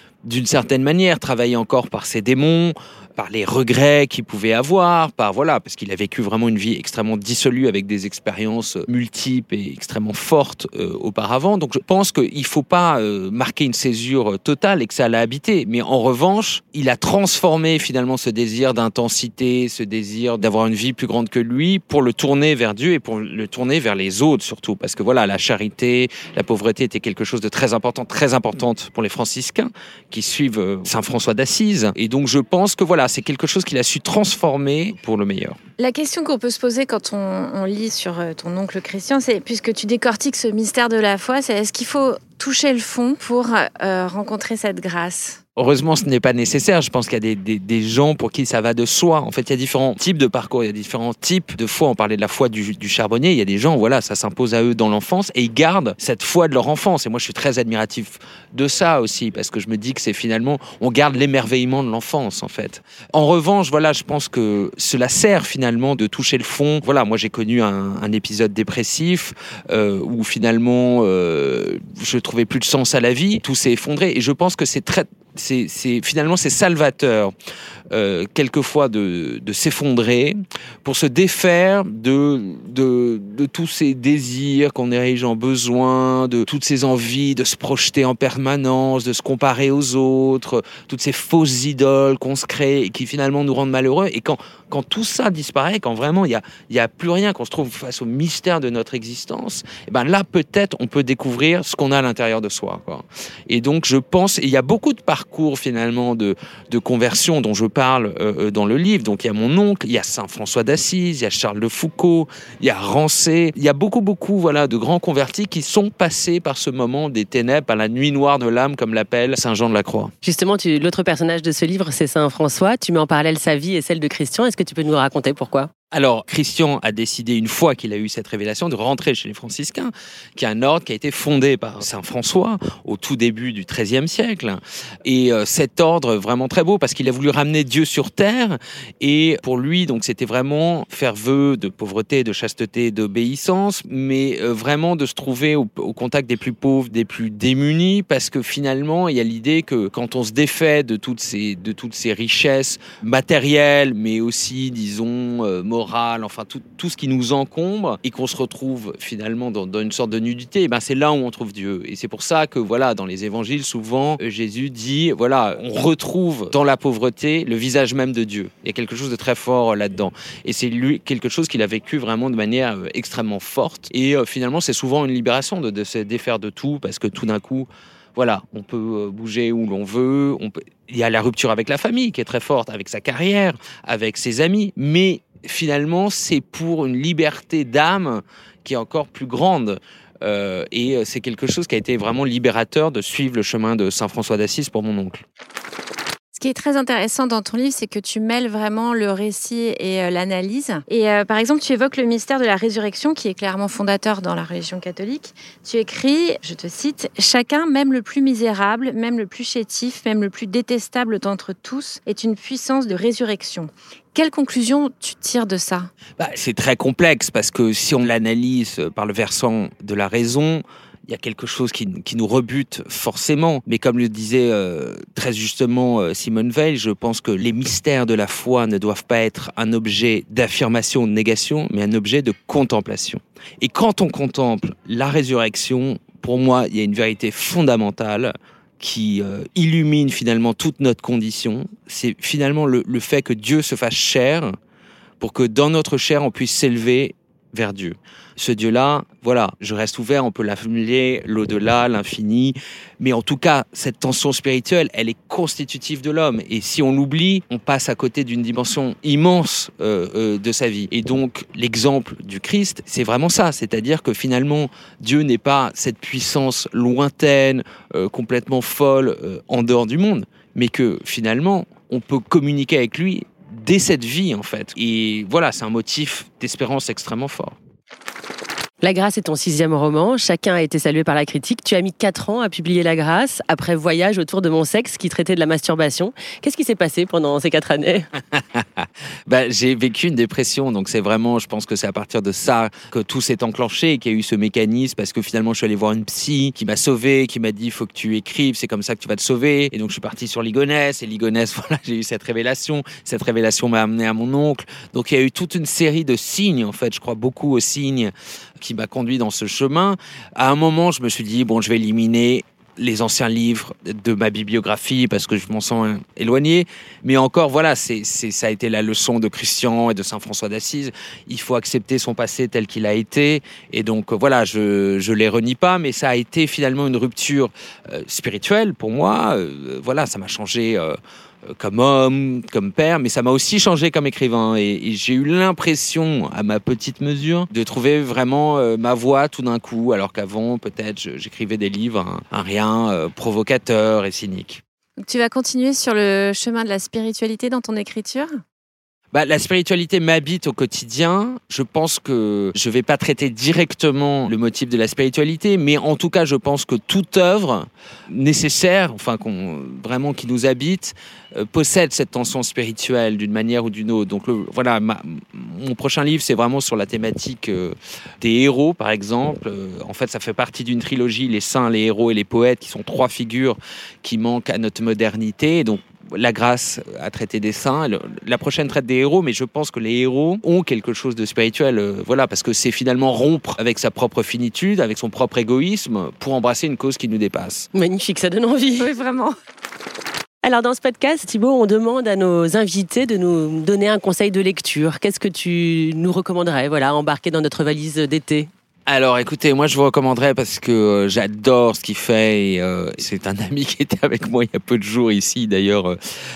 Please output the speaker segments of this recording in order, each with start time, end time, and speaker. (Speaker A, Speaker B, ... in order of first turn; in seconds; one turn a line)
Speaker A: 0.2-35.6
Speaker B: 35.8-45.4
Speaker A: 45.6-77.3
Speaker A: 77.9-120.1
Speaker C: 120.2-125.7
Speaker A: 125.9-195.2
Speaker B: 196.3-215.9
Speaker A: 216.2-244.6
Speaker A: 245.2-277.6
Speaker C: 278.8-288.1
Speaker A: 288.3-331.0
Speaker A: 331.5-344.6
Speaker B: 345.0-348.3
Speaker A: 349.1-387.7
Speaker C: 387.7-388.9
Speaker B: 388.8-389.3
Speaker C: 390.4-398.5
Speaker A: 398.9-406.0